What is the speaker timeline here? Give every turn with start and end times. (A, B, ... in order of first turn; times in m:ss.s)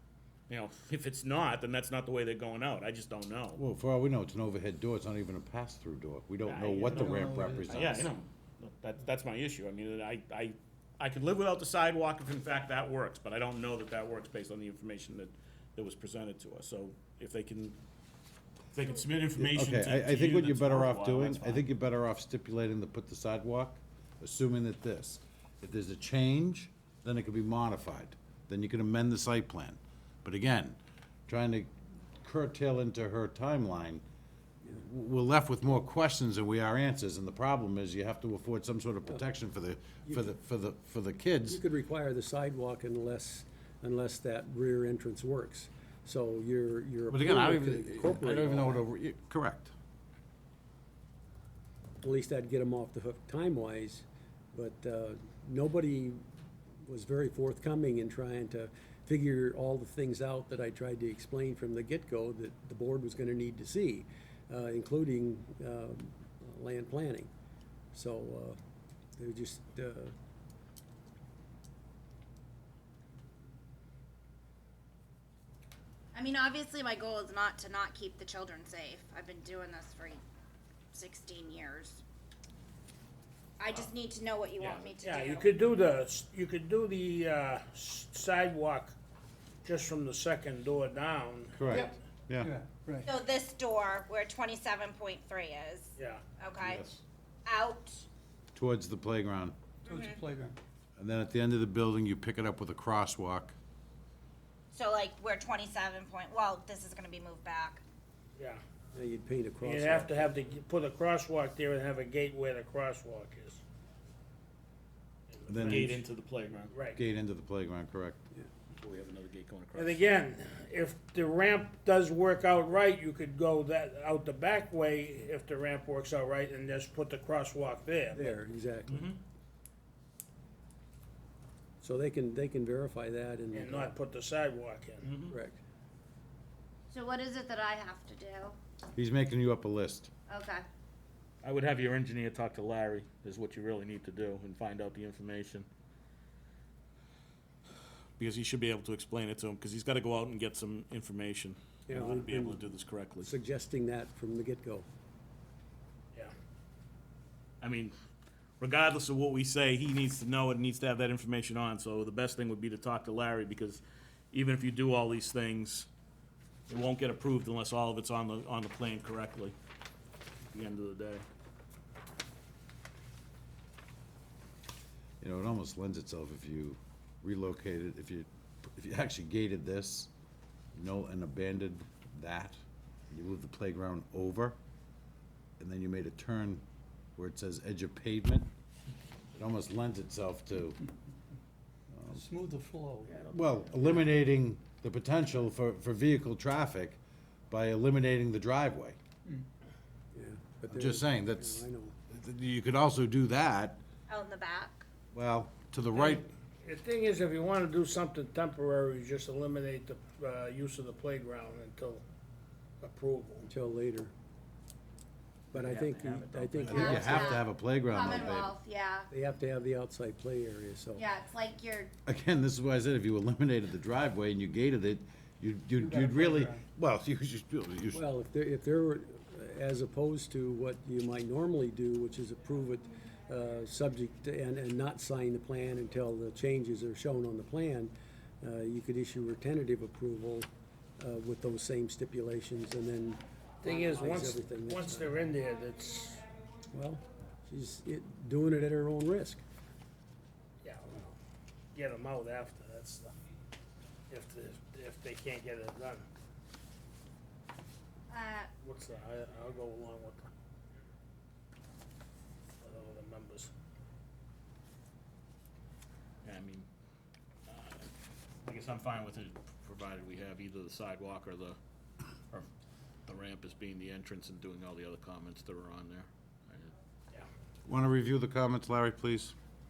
0:00.5-0:03.6 A
0:03.6-0:08.1 B
0:06.4-0:17.8 A
0:06.9-0:08.1 C
0:18.7-0:21.6 A
0:19.4-0:34.0 B
0:34.7-0:41.6 B
0:41.5-0:48.8 D
0:47.1-0:49.7 B
0:52.0-0:56.2 D
0:56.8-1:07.3 D
1:07.9-1:08.6 D
1:09.2-1:10.1 D
1:16.1-1:20.2 E
1:20.9-1:22.0 E
1:23.6-1:25.5 E
1:24.6-1:24.8 A
1:25.0-1:28.9 F
1:29.6-1:31.8 F
1:31.6-1:32.5 B
1:32.4-1:33.1 C
1:33.0-1:36.8 E
1:36.0-1:36.2 F
1:36.6-1:37.0 B
1:37.4-1:38.0 E
1:38.5-1:39.6 B
1:39.8-1:40.2 E
1:39.9-1:40.6 C
1:41.0-1:43.5 B
1:44.7-1:47.8 E
1:48.9-1:50.3 D
1:49.6-1:53.6 F
1:55.3-1:56.0 F
1:55.5-1:56.0 B
1:55.6-1:56.7 A
1:56.7-1:57.0 F
1:57.0-1:58.2 B
1:58.8-2:00.0 A
1:59.7-2:08.4 F
2:08.1-2:09.1 D
2:08.9-2:09.2 A
2:11.8-2:14.0 D
2:13.5-2:15.1 F
2:15.0-2:15.4 A
2:15.3-2:15.6 D
2:16.9-2:18.6 E
2:18.9-2:20.1 B
2:20.3-2:20.6 E
2:21.4-2:25.7 A
2:28.2-2:33.3 A
2:31.9-2:32.6 D
2:33.2-2:34.8 D
2:37.6-2:38.0 A
2:38.6-2:45.9 A
2:46.7-2:49.5 A
2:50.5-2:51.2 A
2:55.2-3:00.1 B
3:00.7-3:02.6 B
3:03.1-3:04.6 B
3:05.6-3:06.6 B
3:07.2-3:08.5 B
3:09.3-3:10.8 B
3:11.9-3:12.2 B
3:12.3-3:13.2 C
3:12.4-3:13.0 D
3:13.3-3:17.0 B
3:17.5-3:19.0 B
3:20.1-3:22.0 D
3:20.7-3:23.8 B
3:24.1-3:24.8 E
3:25.1-3:26.2 B
3:26.0-3:32.0 F
3:32.8-3:33.5 F
3:33.5-3:34.1 D
3:35.5-3:37.4 D
3:35.5-3:37.2 A
3:36.6-3:38.5 B
3:36.7-3:39.1 E
3:39.1-3:41.0 D
3:40.9-3:41.9 E
3:42.0-3:48.0 B
3:45.9-3:46.6 C
3:47.9-4:05.2 D
4:03.6-4:06.2 F
4:06.7-4:09.4 D
4:10.6-4:11.2 F
4:11.7-4:13.1 F
4:14.1-4:16.1 F
4:18.1-4:18.5 E
4:18.6-4:20.3 F
4:22.6-4:23.5 F
4:26.2-4:26.7 A
4:27.5-4:27.9 A
4:28.4-4:31.6 A
4:33.0-4:36.7 A
4:37.6-4:39.4 B